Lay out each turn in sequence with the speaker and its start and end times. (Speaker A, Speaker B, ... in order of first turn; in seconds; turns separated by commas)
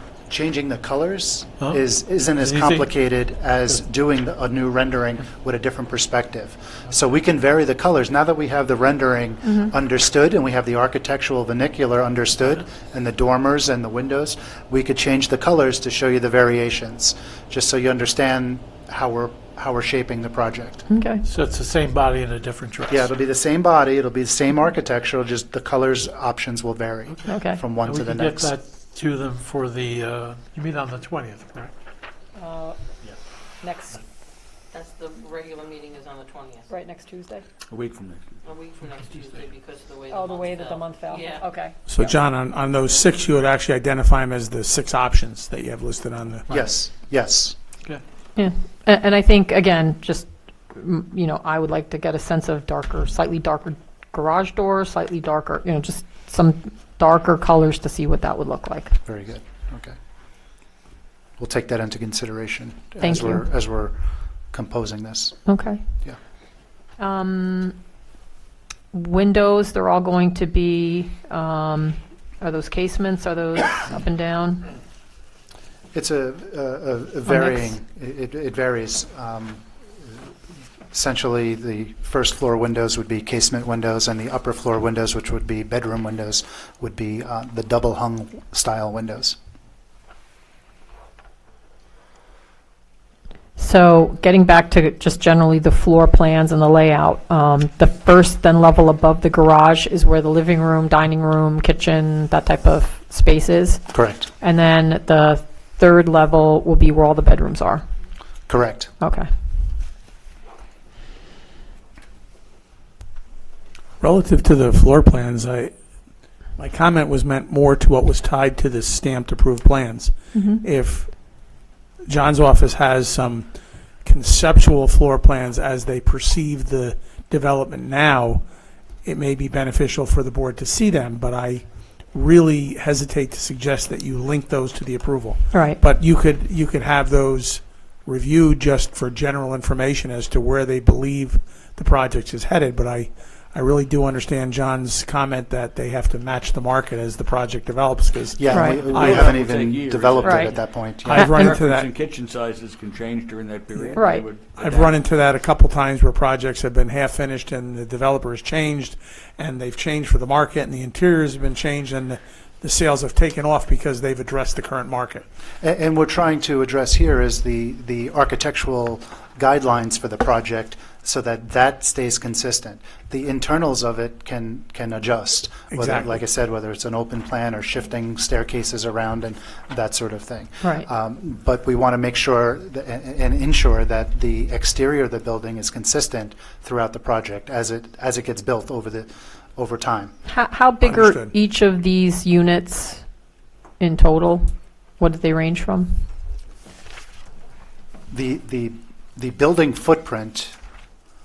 Speaker A: 0.3-20.9, Speaker B: 1.6-2.9, Speaker C: 20.9-21.2, Speaker B: 21.2-23.1, Speaker A: 22.9-28.5, Speaker C: 27.2-27.6, Speaker B: 27.8-31.7, Speaker C: 32.4-32.8, Speaker C: 33.6-34.0, Speaker D: 34.7-36.7, Speaker C: 36.7-37.4, Speaker E: 37.7-38.4, Speaker D: 38.4-41.4, Speaker B: 38.8-39.5, Speaker C: 40.1-41.7, Speaker F: 41.9-46.5, Speaker A: 46.5-47.5, Speaker C: 48.4-59.0, Speaker A: 59.0-59.9, Speaker A: 61.4-64.0, Speaker C: 63.0-63.4, Speaker A: 64.5-65.4, Speaker C: 65.5-65.8, Speaker C: 67.0-67.8, Speaker C: 68.9-74.6, Speaker A: 75.9-79.6, Speaker C: 77.3-77.6, Speaker A: 80.9-89.4, Speaker C: 93.6-103.9, Speaker A: 103.9-104.3, Speaker C: 104.4-107.8, Speaker A: 108.5-108.9, Speaker C: 109.0-109.3, Speaker F: 114.0-115.7, Speaker F: 116.5-121.4, Speaker C: 120.3-120.6, Speaker F: 122.1-123.5, Speaker F: 124.0-128.4, Speaker F: 129.0-149.3, Speaker C: 135.5-135.8, Speaker A: 148.4-151.4, Speaker C: 148.5-148.8, Speaker E: 148.9-155.0, Speaker C: 150.2-150.6, Speaker F: 151.0-151.9, Speaker C: 151.1-151.6, Speaker C: 153.9-154.2, Speaker F: 154.5-165.2, Speaker A: 165.6-190.1, Speaker F: 175.7-176.2, Speaker C: 180.6-180.9, Speaker C: 190.2-193.0, Speaker F: 190.8-191.3, Speaker C: 193.8-194.4, Speaker C: 195.0-196.0, Speaker A: 198.1-200.5